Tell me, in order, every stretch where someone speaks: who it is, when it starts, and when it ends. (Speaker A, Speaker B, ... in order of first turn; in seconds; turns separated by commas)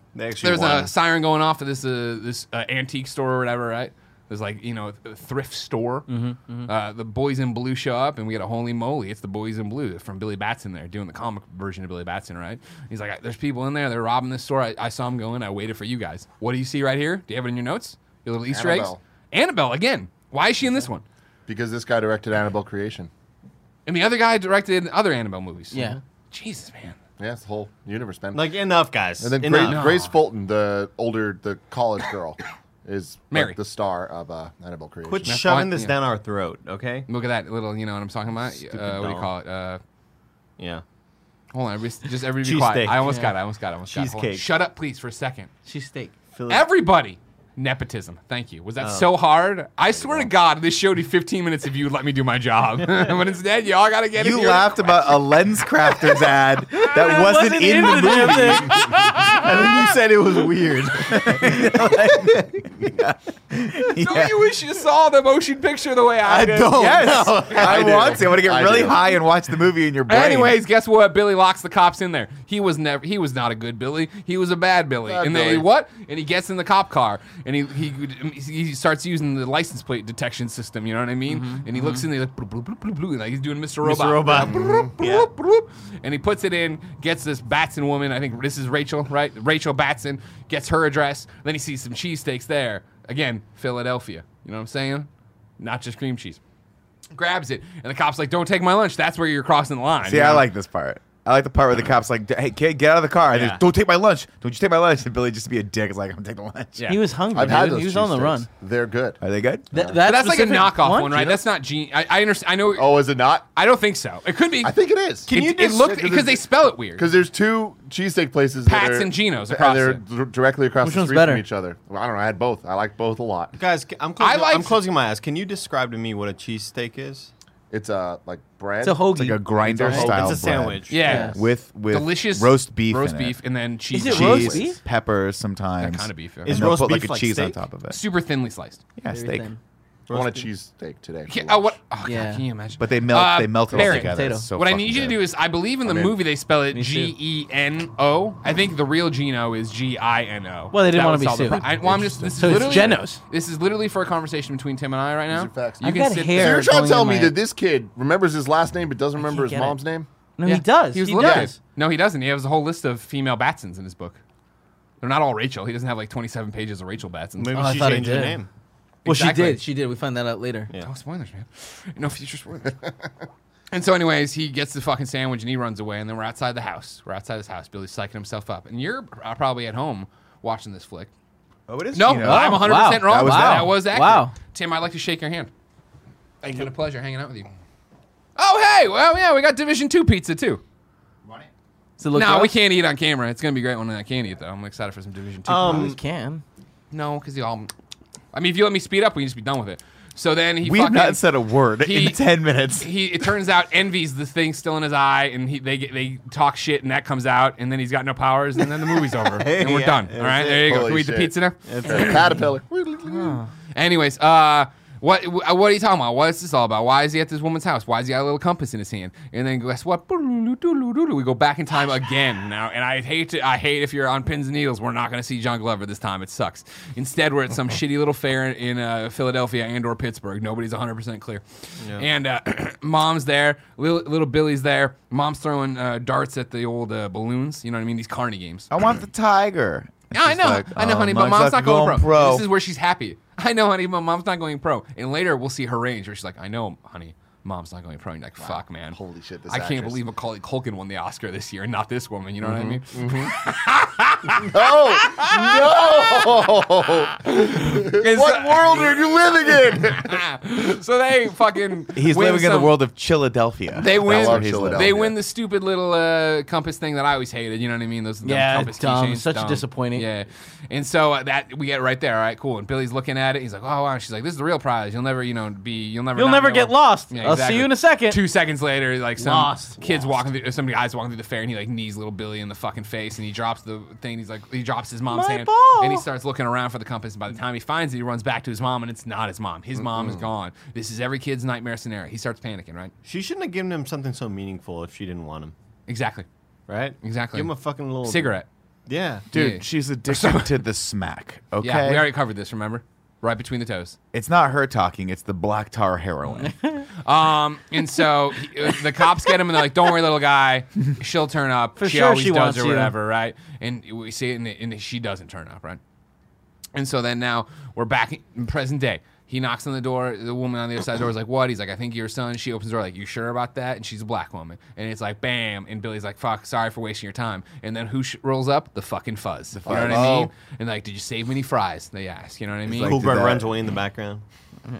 Speaker A: 0.1-0.9, Speaker B: 0.4-6.1, Speaker C: 6.1-6.7, Speaker B: 6.7-21.0, Speaker D: 18.5-19.0, Speaker D: 21.5-23.1, Speaker B: 23.9-27.0, Speaker C: 25.7-26.0, Speaker D: 27.2-28.6, Speaker A: 28.3-29.8, Speaker D: 29.2-35.4, Speaker B: 29.6-30.1, Speaker B: 33.3-33.6, Speaker A: 35.0-37.1, Speaker B: 35.2-36.0, Speaker B: 37.1-39.8, Speaker A: 38.5-39.3, Speaker B: 41.5-45.5, Speaker A: 42.4-43.2, Speaker C: 43.0-43.3, Speaker A: 43.9-44.5, Speaker C: 45.6-46.1, Speaker A: 46.3-46.7, Speaker B: 46.5-55.2, Speaker A: 48.8-49.1, Speaker E: 54.2-58.8, Speaker C: 56.7-58.7, Speaker B: 57.8-59.9, Speaker A: 59.3-62.7, Speaker E: 61.1-64.4, Speaker B: 64.0-67.3, Speaker A: 66.2-68.3, Speaker E: 66.7-70.5, Speaker D: 67.6-69.0, Speaker B: 70.1-95.1, Speaker D: 75.0-75.7, Speaker C: 81.3-82.0, Speaker A: 83.8-85.3, Speaker D: 84.3-84.9, Speaker B: 95.6-96.4, Speaker B: 97.1-100.5, Speaker E: 100.0-106.8, Speaker A: 103.3-103.6, Speaker B: 106.8-107.0, Speaker C: 106.9-108.5, Speaker D: 107.3-109.2, Speaker E: 109.2-109.7, Speaker C: 109.7-111.4, Speaker D: 109.7-110.0, Speaker B: 110.0-114.7, Speaker D: 112.7-113.4, Speaker D: 114.6-116.4, Speaker B: 115.3-117.0, Speaker A: 115.3-115.8, Speaker D: 117.0-123.5, Speaker B: 118.6-120.0, Speaker C: 120.8-121.4, Speaker A: 123.5-127.3, Speaker B: 124.2-124.8, Speaker D: 127.7-129.1, Speaker C: 128.8-130.1, Speaker E: 129.1-133.4, Speaker A: 129.8-131.3, Speaker B: 130.9-134.7, Speaker C: 131.0-131.4, Speaker C: 133.9-134.8, Speaker E: 134.0-138.0, Speaker B: 135.8-136.7, Speaker A: 136.4-137.6, Speaker B: 137.9-138.8, Speaker E: 139.0-139.5, Speaker C: 139.1-139.6, Speaker A: 140.1-140.5, Speaker D: 140.1-141.8, Speaker B: 141.3-156.6, Speaker C: 142.0-142.4, Speaker E: 142.8-145.2, Speaker C: 143.7-144.5, Speaker C: 146.7-147.1, Speaker C: 150.7-153.2, Speaker D: 151.7-153.0, Speaker D: 155.3-155.8, Speaker C: 155.8-157.4, Speaker D: 156.3-160.1, Speaker C: 159.2-159.8, Speaker C: 160.4-161.6, Speaker B: 160.4-164.2, Speaker D: 161.2-161.5, Speaker B: 165.0-167.7, Speaker A: 167.4-168.5, Speaker C: 167.5-168.4, Speaker B: 169.0-169.6, Speaker C: 169.0-170.7, Speaker B: 170.8-172.8, Speaker B: 173.7-181.1, Speaker E: 181.7-183.8, Speaker B: 181.9-185.5, Speaker C: 182.2-184.3, Speaker B: 186.4-187.5, Speaker B: 188.3-190.6, Speaker C: 192.0-192.5, Speaker B: 192.1-195.9, Speaker A: 195.4-196.0, Speaker C: 195.5-196.4, Speaker B: 196.9-197.7, Speaker B: 198.3-201.2, Speaker E: 200.6-202.9, Speaker B: 201.8-212.4, Speaker A: 209.2-210.7, Speaker D: 210.6-211.3, Speaker A: 211.7-212.2, Speaker C: 211.8-212.2, Speaker D: 211.8-213.4, Speaker C: 213.1-213.5, Speaker B: 213.7-238.7, Speaker A: 231.8-232.1, Speaker E: 238.7-242.5, Speaker B: 240.1-256.5, Speaker D: 248.4-250.0, Speaker D: 252.4-253.3, Speaker D: 254.3-260.2, Speaker B: 257.2-262.8, Speaker E: 261.9-264.9, Speaker B: 263.7-292.9, Speaker D: 263.8-265.1, Speaker C: 268.2-270.1, Speaker C: 276.1-278.2, Speaker C: 279.2-279.8, Speaker D: 279.8-280.1, Speaker C: 285.1-286.1, Speaker D: 289.9-290.2, Speaker A: 293.0-295.5, Speaker B: 295.9-296.2, Speaker A: 296.7-299.3, Speaker B: 297.0-298.4, Speaker B: 299.3-300.6, Speaker E: 299.3-302.1, Speaker B: 301.6-303.9, Speaker E: 304.1-306.5, Speaker C: 306.4-306.8, Speaker B: 307.0-315.8, Speaker C: 311.8-312.9, Speaker B: 316.7-333.0, Speaker E: 329.6-330.3, Speaker D: 329.6-330.3, Speaker E: 332.7-333.5, Speaker A: 332.7-334.2